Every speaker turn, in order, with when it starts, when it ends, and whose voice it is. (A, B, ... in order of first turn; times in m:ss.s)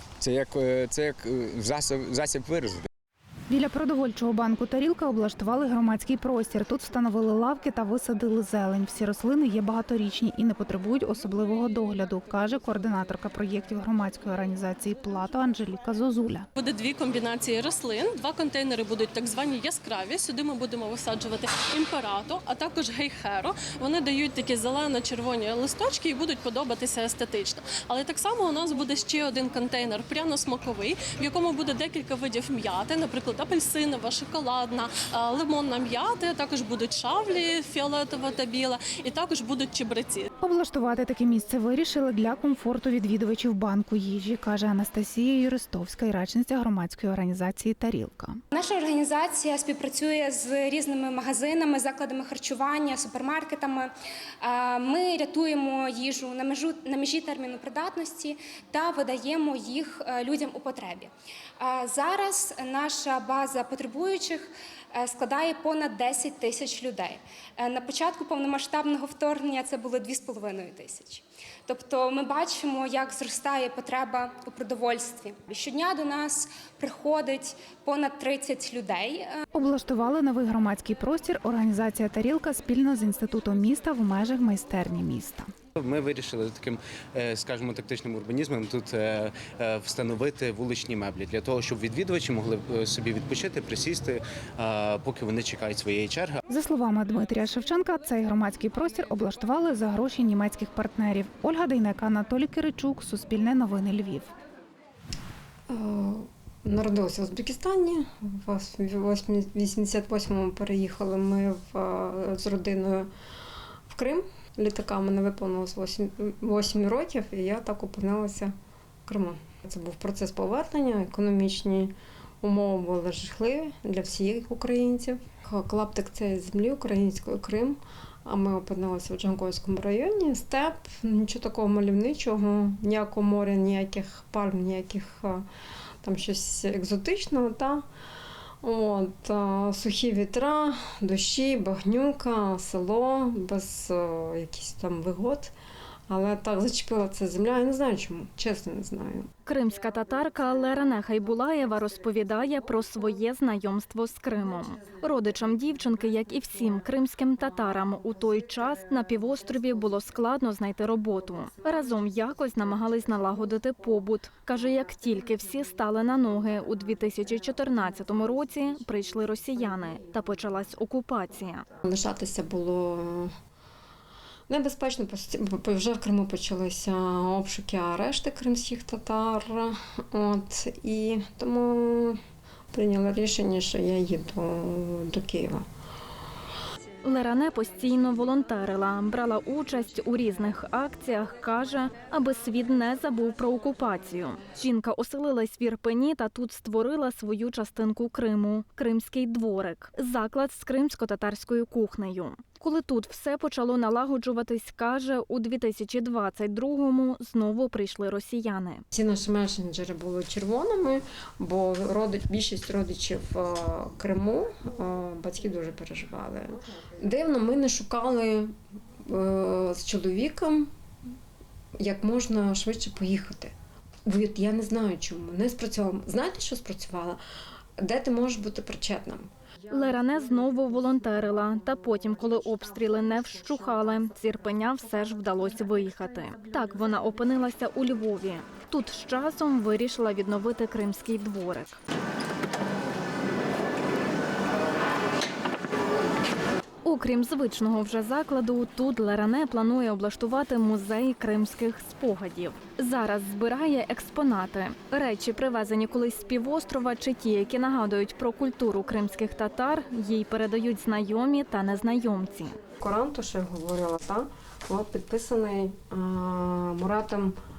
0:00.2-0:02.9 A
0:03.5-0:16.5 B
0:16.6-0:40.3 C
0:40.4-0:48.4 B
0:48.5-1:19.4 D
1:19.5-1:25.5 B
1:25.8-1:36.3 E
1:36.5-1:44.3 B
1:45.7-1:53.1 F
1:53.9-1:58.5 F
1:59.1-2:15.5 F
2:16.0-2:17.8 F
2:18.6-2:25.5 F
2:26.1-2:29.3 F
2:29.4-2:51.7 G
2:51.8-2:53.3 F
2:54.5-3:02.2 F
3:02.7-3:05.6 F
3:07.0-3:28.8 G
3:28.9-3:40.7 F
3:41.8-3:43.5 F
3:44.0-3:47.2 F
3:47.8-3:49.3 F
3:49.7-4:01.8 G
4:06.8-4:22.6 G
4:22.8-4:27.4 F